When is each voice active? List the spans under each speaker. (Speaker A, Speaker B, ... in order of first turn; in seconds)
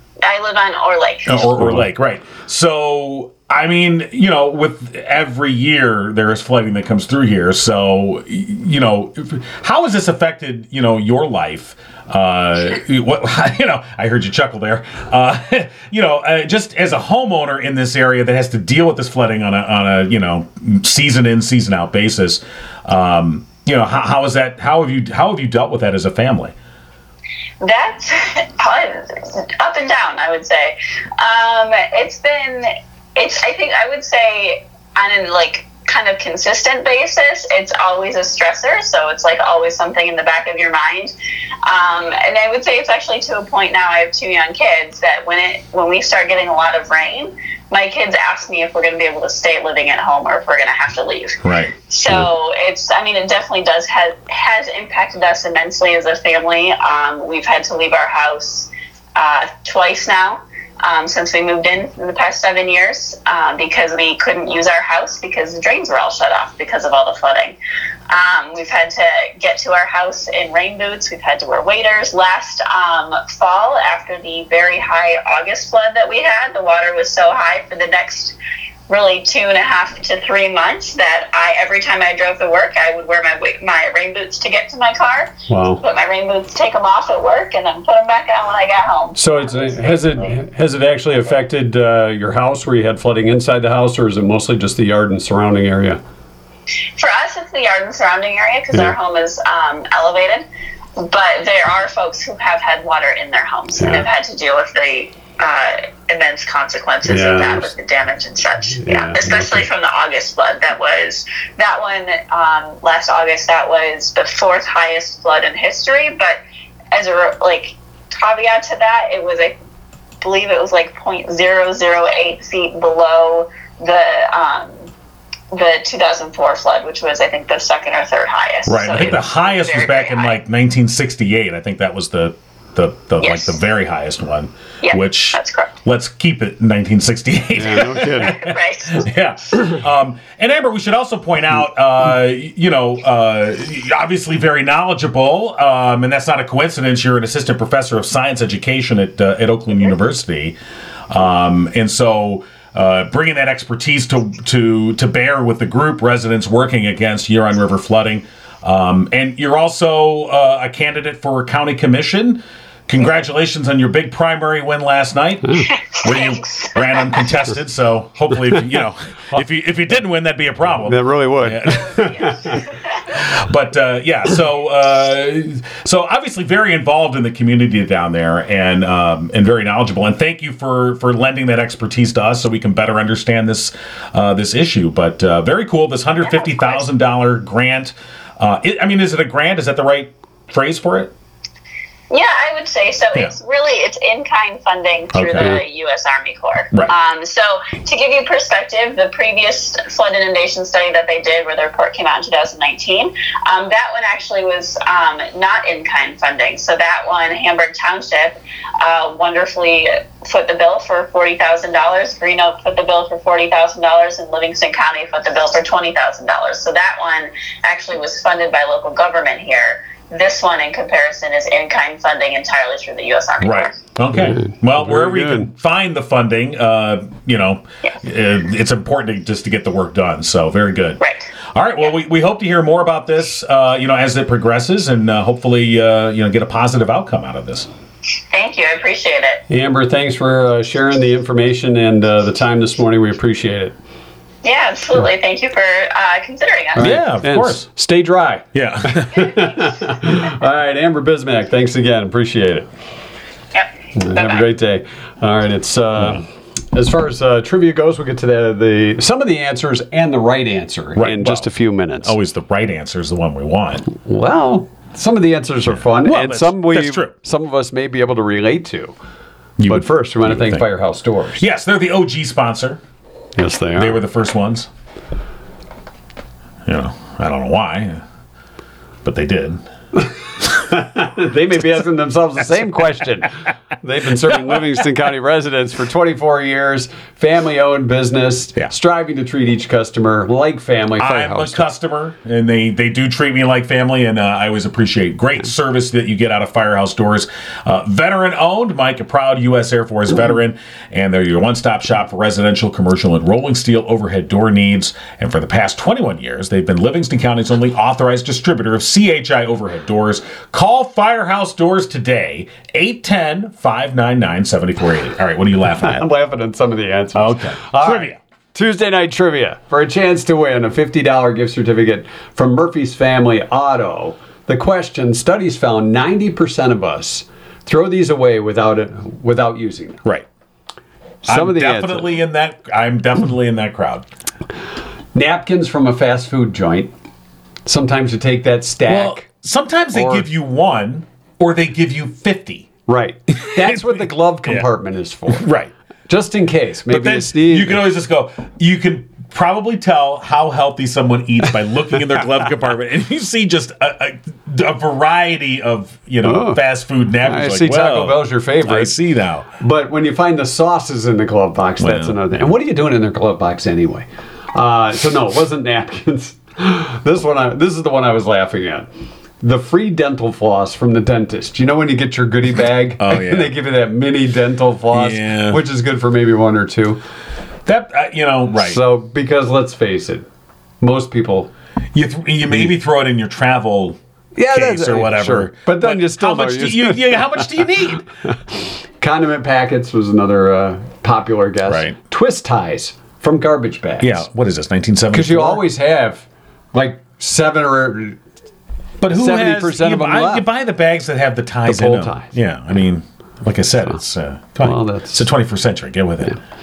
Speaker A: 0.2-1.5, 27.6-41.1, 41.6-67.6, 68.1-78.4, 78.9-90.4, 97.0-100.5, 101.0-116.4, 116.9-119.6, 120.2-124.9, 125.5-130.4, 133.2-133.6, 134.8-135.7, 138.2-139.1, 165.7-167.2, 186.3-186.8, 192.1-223.7, 231.0-231.3, 238.3-239.4, 244.4-246.9, 253.6-254.4
Speaker B: 1.3-26.5, 51.4-51.7, 128.7-150.6, 151.1-191.1, 195.1-195.5, 223.4-231.0, 231.5-237.7, 246.8-247.7, 248.5-249.4, 261.0-261.5, 262.0-263.9, 265.9-267.1, 269.6-270.6, 271.4-272.8, 273.8-274.7, 276.7-278.0, 279.0-279.6, 291.0-316.1, 317.1-318.2, 331.3-334.1, 338.9-342.7, 343.4-344.7, 345.3-345.7, 346.9-359.5, 361.8-362.2, 373.0-373.5, 374.9-375.6, 377.7-378.8, 381.9-384.0, 384.5-388.1, 391.7-391.9, 394.0-395.6, 399.0-406.4
Speaker C: 85.5-85.8, 89.2-96.0, 103.8-104.1, 107.1-107.7, 108.8-109.7, 137.5-138.4, 170.8-172.7, 224.2-225.5, 239.5-243.8, 246.8-252.7, 253.9-262.2, 263.9-268.9, 269.6-271.4, 273.4-274.0, 280.0-291.6, 315.7-330.0, 331.2-332.1, 335.1-336.9, 337.7-339.3, 339.9-340.3, 342.9-345.5, 346.1-347.9, 356.2-356.6, 357.2-358.9, 359.6-368.9, 369.4-377.0, 378.6-380.3, 380.8-381.5, 384.4-387.7, 389.0-394.2, 395.1-398.2, 399.1-400.5, 401.7-402.3, 404.6-405.3